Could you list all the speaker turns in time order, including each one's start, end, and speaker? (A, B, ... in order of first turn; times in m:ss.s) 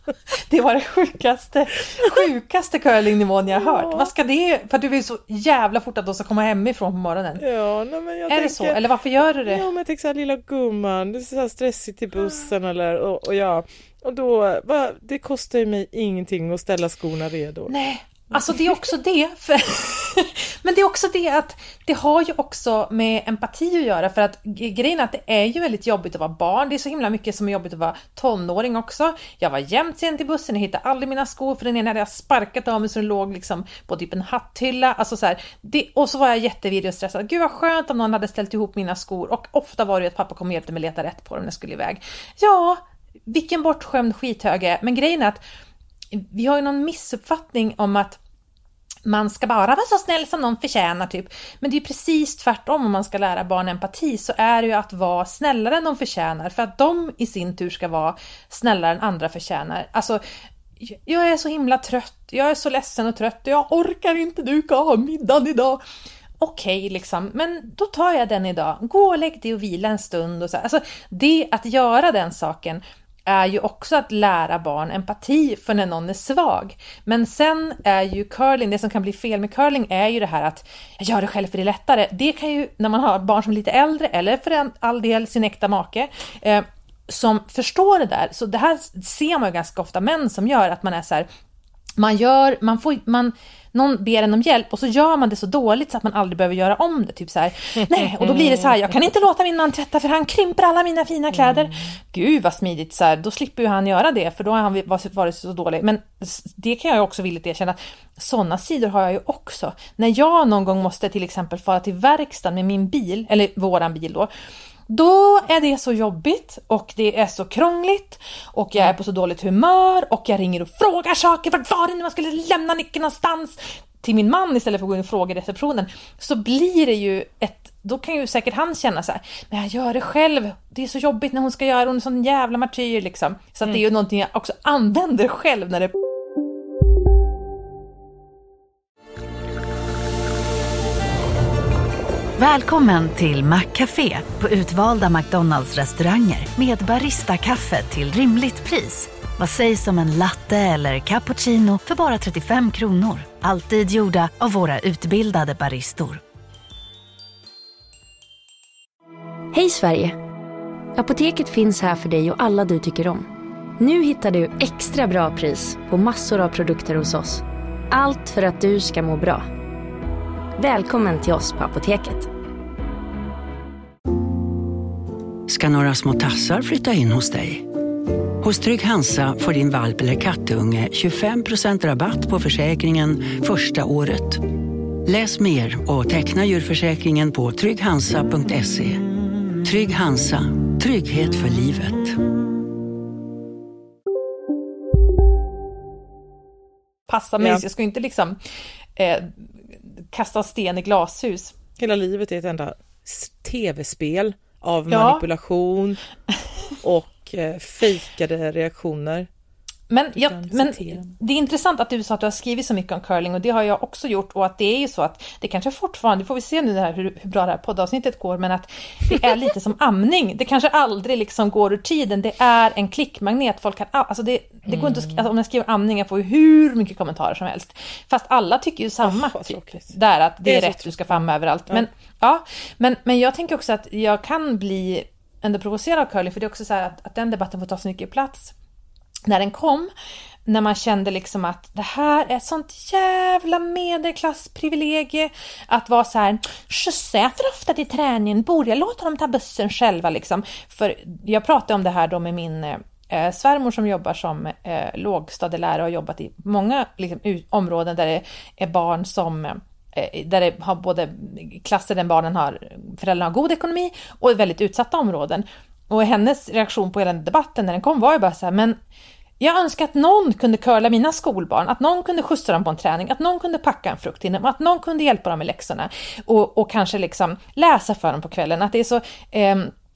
0:00.3-0:07.4 A
0:03.7-0:04.1 B
0:07.4-0:08.8 B
0:08.3-0:09.6 A
0:09.4-0:17.7 B
0:17.7-0:45.4 A
0:18.3-0:18.8 B
0:46.1-0:48.2 A
0:49.0-1:00.2 A
1:00.8-1:05.8 A
1:06.4-1:31.3 A
1:32.0-1:54.3 A
1:38.2-1:38.8 B
1:41.3-1:41.9 B
1:54.9-2:15.9 A
2:22.4-2:36.2 C
2:39.5-2:40.2 D
2:41.0-2:49.5 D
2:50.6-2:52.3 D
2:55.5-2:57.6 E
2:58.4-3:09.0 E
3:09.6-3:12.2 E
3:17.1-3:18.4 A
3:19.0-3:21.5 A
3:21.8-3:26.0 B
3:24.9-3:25.2 A
3:26.8-3:29.3 B
3:29.9-3:58.5 A
3:30.3-3:31.1 B
3:44.7-3:45.2 B
3:49.0-3:51.8 B
3:59.2-3:59.9 A
4:00.5-4:28.8 A
4:29.4-4:39.7 A